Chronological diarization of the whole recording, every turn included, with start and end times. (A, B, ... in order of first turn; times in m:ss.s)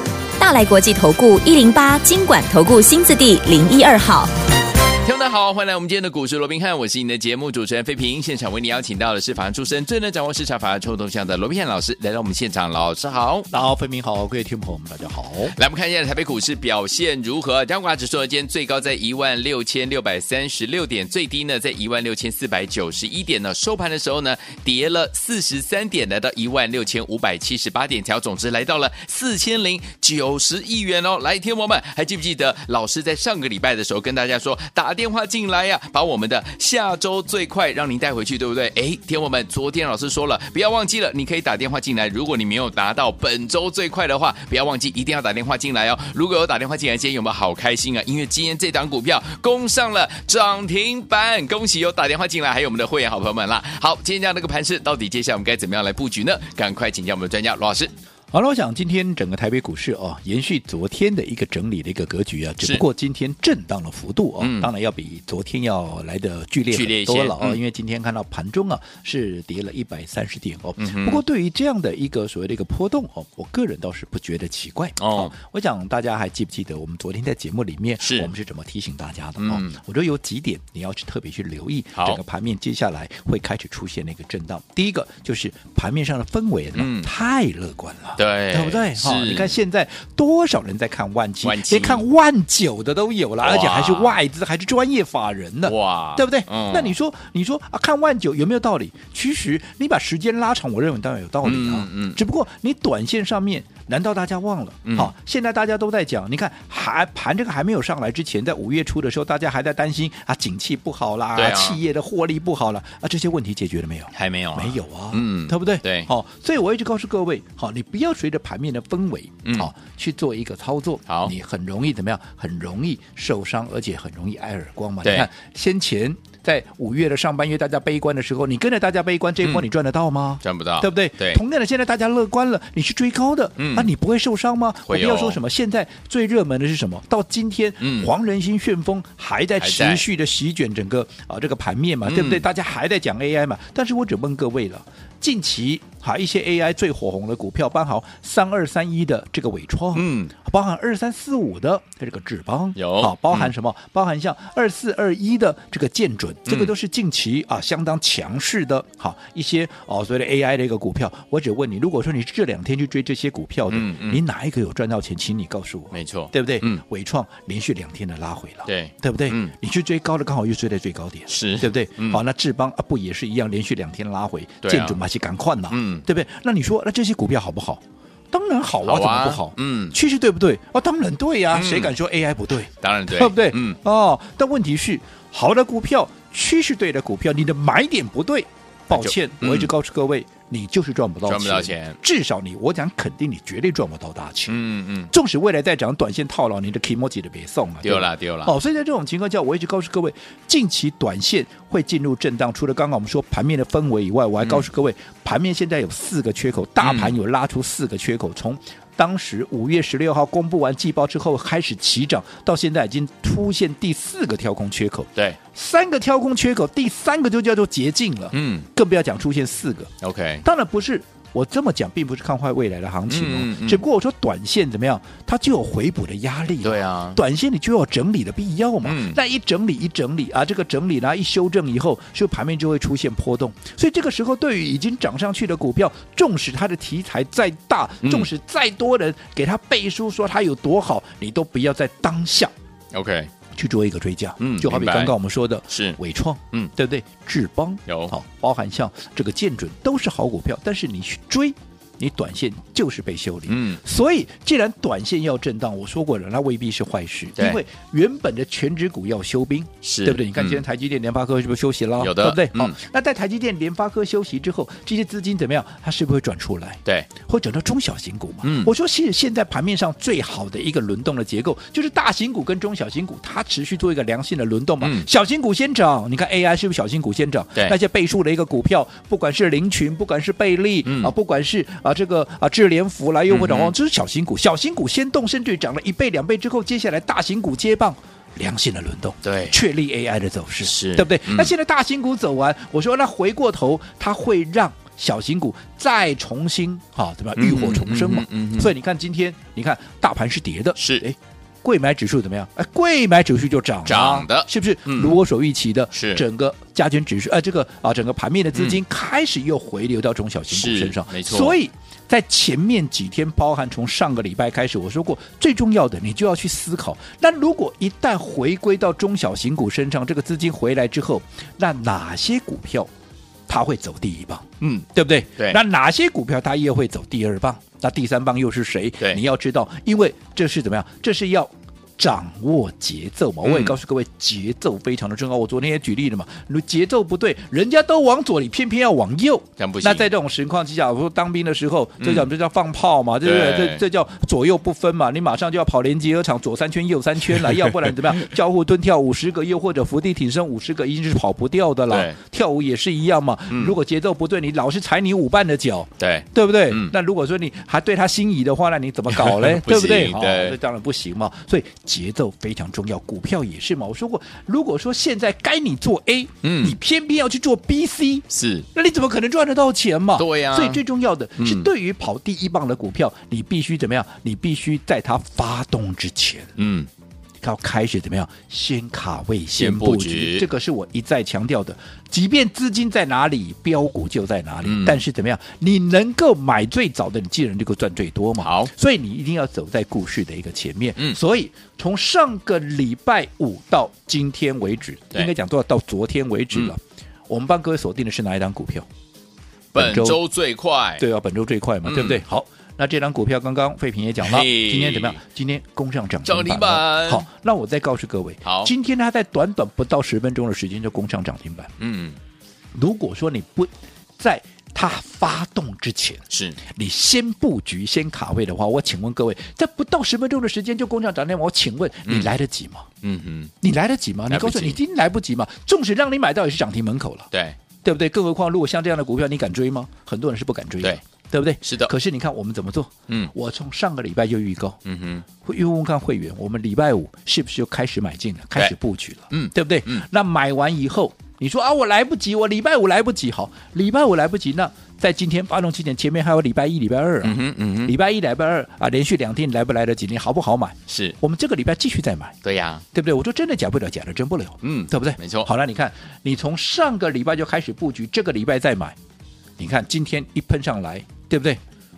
0:00.4-0:04.3 A
0:05.0-0:13.5 B
0:13.5-0:15.6 C
0:15.5-0:57.9 B
0:58.3-3:14.6 C
1:04.4-1:04.7 B
1:06.7-1:07.6 B
1:10.8-1:11.2 B
1:15.0-1:15.3 B
1:18.0-1:18.3 B
1:19.4-1:19.8 B
1:22.0-1:22.2 B
1:26.8-1:27.1 B
1:28.2-1:29.6 B
1:31.4-1:32.1 B
1:33.4-1:34.2 B
1:35.6-1:37.0 B
1:41.4-1:42.2 B
1:44.8-1:45.1 B
1:51.4-1:51.8 B
1:54.1-1:56.1 B
1:59.4-1:59.7 B
2:01.1-2:01.3 B
2:05.0-2:05.3 B
2:10.4-2:11.4 B
2:13.6-2:13.9 B
2:14.9-2:15.4 B
2:17.8-2:18.1 B
2:19.6-2:20.0 B
2:22.0-2:22.4 B
2:29.9-2:30.3 B
2:32.8-2:33.5 B
2:36.5-2:36.7 B
2:43.7-2:44.2 B
2:45.9-2:46.8 B
2:48.7-2:49.5 B
2:51.3-2:52.2 B
2:54.6-2:55.0 B
2:55.7-2:56.1 B
2:58.8-3:00.0 B
3:01.5-3:02.0 B
3:02.8-3:03.8 B
3:08.9-3:09.7 B
3:11.3-3:12.0 B
3:14.5-3:15.1 B
3:15.1-4:02.5 C
3:17.8-3:18.5 B
3:24.4-3:24.7 B
3:26.8-3:27.2 B
3:38.3-3:38.7 B
3:40.0-3:40.4 B
3:43.1-3:43.8 B
3:46.6-3:47.2 B
3:48.8-3:49.2 B
3:58.0-3:58.3 B
4:02.9-4:03.3 B
4:03.5-5:22.9 C
4:04.4-4:05.1 B
4:05.7-4:06.0 B
4:07.9-4:08.1 B
4:13.5-4:13.8 B
4:19.8-4:20.6 B
4:22.0-4:22.8 B
4:28.4-4:28.7 B
4:34.8-4:35.1 B
4:40.8-4:41.1 B
4:43.3-4:43.8 B
4:49.2-4:49.6 B
4:50.6-4:51.5 B
4:57.4-4:58.7 B
5:00.8-5:01.0 B
5:03.9-5:05.2 B
5:05.9-5:06.2 B
5:08.5-5:08.8 B
5:10.5-5:11.6 B
5:23.5-6:16.5 C
5:24.6-5:25.6 B
5:33.4-5:33.8 B
5:39.6-5:40.1 B
5:42.0-5:42.3 B
5:43.2-5:43.8 B
5:51.9-5:52.2 B
5:53.5-5:53.8 B
5:56.0-5:57.0 B
5:59.1-6:00.6 B
6:06.4-6:06.8 B
6:08.3-6:08.7 B
6:10.2-6:10.8 B
6:11.4-6:11.7 B
6:16.6-6:16.9 B
6:17.4-6:38.9 C
6:19.6-6:20.5 B
6:24.6-6:25.0 B
6:28.4-6:28.7 B
6:39.7-6:41.0 B
6:39.8-6:40.2 C
6:41.0-6:51.7 C
6:41.8-6:42.2 B
6:44.2-6:45.2 B
6:46.2-6:47.3 B
6:48.4-6:48.7 B
6:51.8-6:52.2 B
6:52.8-7:02.9 C
6:56.3-6:56.6 B
7:02.1-7:02.3 B
7:03.0-7:03.5 B
7:03.6-7:07.3 C
7:04.3-7:04.8 B
7:07.8-7:14.8 C
7:11.6-7:11.9 B
7:14.8-7:15.3 B
7:15.4-7:32.4 C
7:19.3-7:20.0 B
7:27.2-7:28.0 B
7:30.9-7:31.2 B
7:32.4-7:32.8 B
7:32.9-7:39.0 C
7:34.6-7:35.5 B
7:39.6-7:41.6 C